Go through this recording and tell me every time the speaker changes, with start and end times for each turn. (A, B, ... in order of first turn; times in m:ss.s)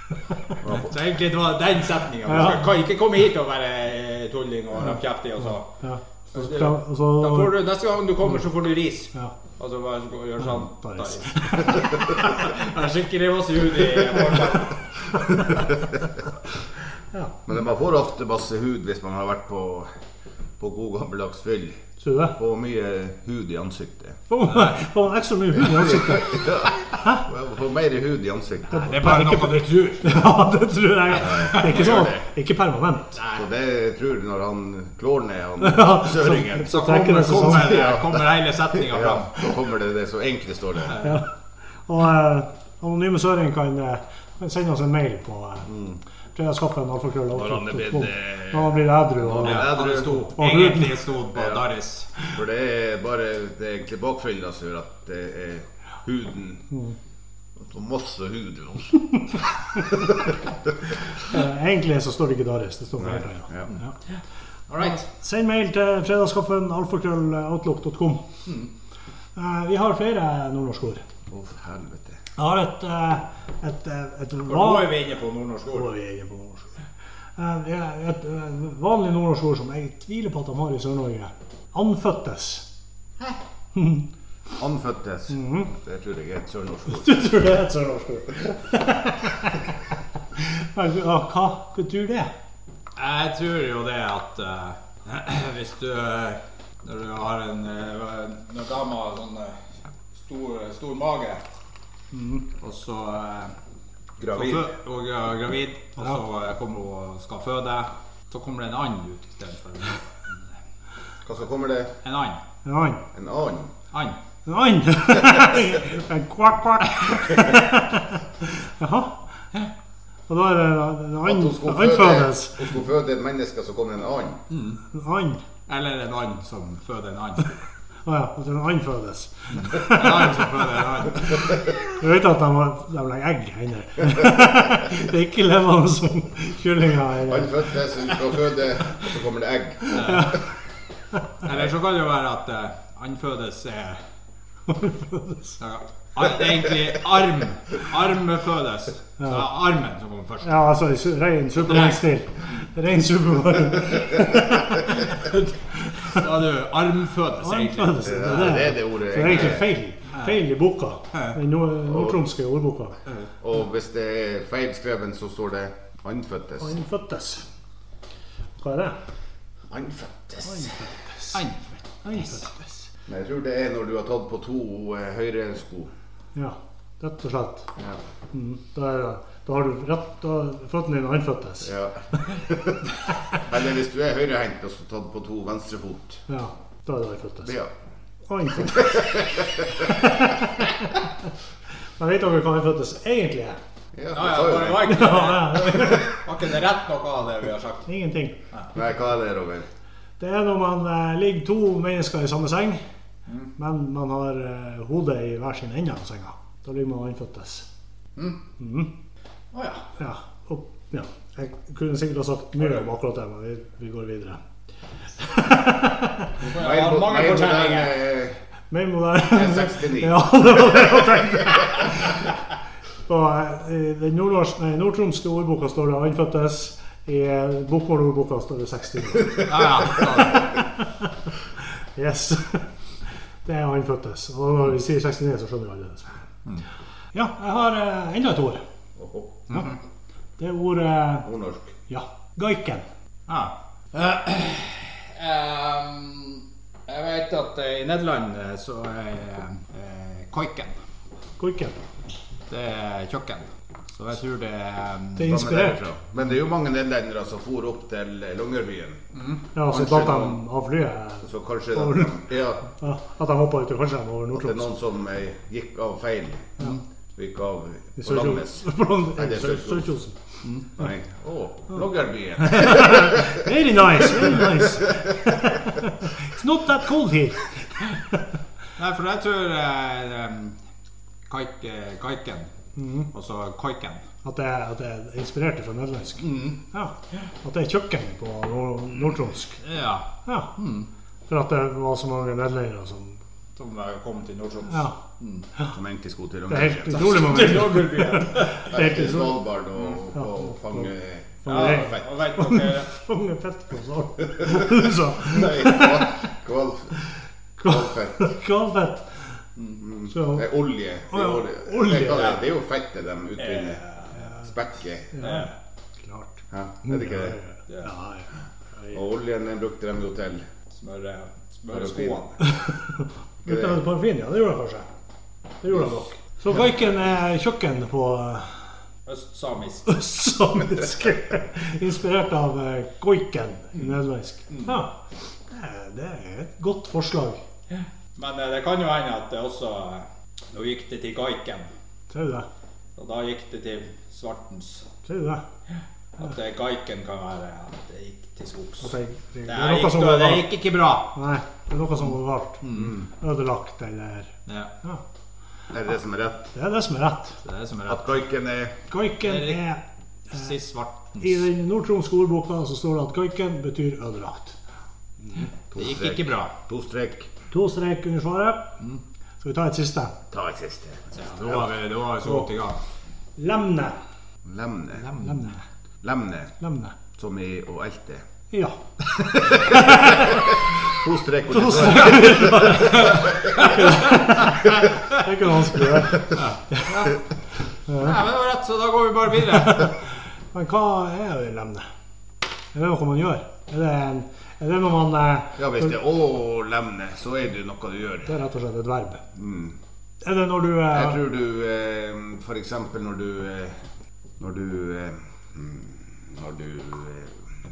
0:00.6-0:00.9 A
0:00.7-0:05.7 B
0:02.3-0:02.6 C
0:04.9-0:07.6 C
0:06.3-0:14.8 B
0:10.4-0:12.3 C
0:15.3-0:16.0 A
0:17.4-0:19.9 A
0:20.6-0:24.2 A
0:22.0-0:22.4 C
0:24.3-0:27.2 C
0:25.6-0:28.9 A
0:28.7-0:33.2 C
0:28.7-0:30.2 B
0:31.2-0:32.2 A
0:31.2-0:31.8 B
0:33.2-0:33.4 B
0:33.3-0:36.8 A
0:35.6-0:38.0 C
0:36.7-0:39.4 B
0:37.4-0:41.0 A
0:40.9-0:41.2 B
0:41.0-0:41.3 C
0:41.8-0:45.7 C
0:45.6-0:46.0 A
0:46.3-0:49.7 C
0:47.3-0:50.1 A
0:49.4-0:52.1 B
0:50.4-0:51.0 C
0:51.3-0:51.6 A
0:52.3-0:56.7 A
0:56.7-0:57.0 C
0:57.6-0:59.2 A
0:59.9-1:00.3 A
1:01.3-1:03.9 C
1:03.0-1:03.7 A
1:04.7-1:05.0 B
1:04.8-1:08.3 C
1:09.4-1:11.0 C
1:11.3-1:12.2 A
1:12.4-1:15.0 C
1:14.5-1:15.9 B
1:15.7-1:16.8 C
1:17.4-1:22.7 C
1:23.7-1:24.1 C
1:24.6-1:27.4 A
1:25.3-1:25.7 C
1:26.9-1:29.7 C
1:30.4-1:32.3 C
1:33.0-1:41.4 B
1:42.1-1:42.4 C
1:42.6-1:43.5 B
1:44.2-1:44.7 A
1:44.3-1:50.6 B
1:51.2-1:51.9 A
1:52.0-1:52.4 B
1:52.6-1:53.0 C
1:53.1-1:53.7 A
1:53.9-1:54.2 B
1:54.4-1:59.2 C
1:55.1-1:55.6 A
2:00.3-2:02.7 C
2:01.2-2:04.4 A
2:04.5-2:04.8 B
2:04.9-2:05.4 C
2:05.7-2:07.5 B
2:08.0-2:10.5 C
2:09.5-2:11.4 B
2:12.0-2:17.7 C
2:17.3-2:20.2 A
2:20.0-2:20.3 B
2:20.0-2:20.4 C
2:21.4-2:24.0 B
2:24.7-2:25.6 C
2:25.6-2:30.6 B
2:29.2-2:29.5 C
2:30.4-2:34.9 C
2:31.6-2:32.6 B
2:35.0-2:38.6 B
2:35.8-2:36.2 C
2:37.4-2:43.0 C
2:38.0-2:39.7 A
2:41.9-2:42.2 A
2:43.4-2:46.7 A
2:46.6-2:47.4 C
2:48.6-2:49.0 C
2:49.7-2:50.8 A
2:50.4-2:51.4 C
2:51.3-2:52.4 B
2:52.0-2:52.8 C
2:53.0-2:55.9 A
2:56.3-2:57.7 C
2:58.3-3:01.7 C
3:01.6-3:02.8 A
3:03.4-3:06.2 A
3:06.3-3:07.5 C
3:07.4-3:07.7 A
3:08.3-3:09.2 C
3:08.6-3:09.9 A
3:09.8-3:10.9 C
3:12.0-3:13.6 C
3:13.9-3:15.1 A
3:14.1-3:17.8 B
3:14.9-3:16.1 C
3:17.9-3:18.4 C
3:18.7-3:19.7 A
3:20.2-3:22.8 C
3:23.6-3:27.7 C
3:28.6-3:28.9 C
3:29.5-3:29.8 B
3:30.0-3:34.4 C
3:35.2-3:36.3 C
3:36.4-3:37.9 B
3:36.5-3:38.4 A
3:38.7-3:42.1 C
3:39.2-3:40.9 A
3:43.0-3:51.1 C
3:49.4-3:50.6 B
3:51.9-3:56.2 C
3:57.1-3:58.6 C
3:59.0-3:59.5 A
3:59.5-3:59.8 B
4:00.4-4:01.3 C
4:01.2-4:01.7 A
4:01.9-4:02.8 C
4:03.3-4:10.8 B
4:11.4-4:11.8 C
4:12.5-4:15.3 B
4:15.2-4:15.8 C
4:15.2-4:19.0 A
4:19.1-4:19.4 B
4:19.5-4:22.1 C
4:19.7-4:20.4 A
4:21.2-4:22.6 A
4:22.7-4:24.6 C
4:24.3-4:26.6 A
4:27.2-4:29.9 A
4:28.0-4:30.2 C
4:30.4-4:30.7 B
4:30.8-4:33.3 A
4:32.4-4:38.2 C
4:34.2-4:35.4 A
4:38.8-4:40.6 B
4:41.3-4:42.5 B
4:42.8-4:43.1 C
4:43.1-4:44.0 B
4:44.2-4:49.6 C
4:46.2-4:46.6 B
4:49.6-4:50.9 B
4:50.2-4:50.5 C
4:51.3-4:53.2 C
4:53.6-4:55.5 B
4:54.7-4:55.0 C
4:55.7-4:57.6 A
4:56.5-4:59.4 C
4:56.9-4:58.6 B
4:58.7-5:02.0 A
5:00.1-5:00.9 C
5:01.4-5:06.2 C
5:01.4-5:02.9 B
5:05.2-5:06.9 A
5:07.6-5:09.4 C
5:07.6-5:08.3 A
5:09.8-5:13.8 A
5:10.1-5:10.4 C
5:11.1-5:12.3 C
5:11.9-5:12.4 B
5:13.4-5:14.2 B
5:14.3-5:15.2 A
5:15.1-5:15.5 C
5:15.2-5:15.5 B
5:16.0-5:18.3 C
5:16.5-5:17.4 A
5:18.9-5:20.5 A
5:20.7-5:22.4 B
5:21.7-5:22.2 A
5:22.4-5:24.9 C
5:23.4-5:23.8 A
5:25.6-5:28.7 C
5:29.0-5:29.9 B
5:29.8-5:37.4 C
5:34.5-5:34.8 B
5:37.7-5:41.7 B
5:42.1-5:42.5 C
5:43.0-5:44.8 B
5:45.0-5:45.4 C
5:46.2-5:48.9 B
5:48.8-5:50.5 C
5:49.5-5:51.1 B
5:51.1-5:52.6 C
5:52.6-5:53.0 B
5:52.7-5:53.0 A
5:53.2-5:55.0 C
5:55.7-5:56.5 A
5:56.5-5:57.4 C
5:57.4-5:58.2 B
5:57.9-5:58.7 A
5:58.9-5:59.8 C
5:59.2-5:59.6 B
6:00.3-6:01.4 B
6:01.2-6:04.6 C
6:05.7-6:07.3 A
6:05.8-6:06.5 B
6:07.5-6:08.7 C
6:09.4-6:10.1 C
6:10.3-6:11.1 A
6:11.1-6:12.8 B
6:13.4-6:14.0 C
6:14.4-6:15.1 A
6:15.0-6:15.5 B
6:15.2-6:15.6 C
6:16.0-6:16.6 A
6:16.6-6:17.0 C
6:17.1-6:18.2 A
6:18.5-6:20.6 C
6:19.4-6:23.6 A
6:21.5-6:27.0 C
6:22.7-6:23.8 B
6:26.3-6:27.1 B
6:27.9-6:28.2 C
6:28.0-6:29.9 B
6:29.6-6:31.9 C
6:32.7-6:35.9 C
6:35.6-6:38.3 A
6:38.2-6:39.2 C
6:39.3-6:39.8 A
6:40.2-6:41.2 C
6:40.9-6:43.8 A
6:44.4-6:47.4 A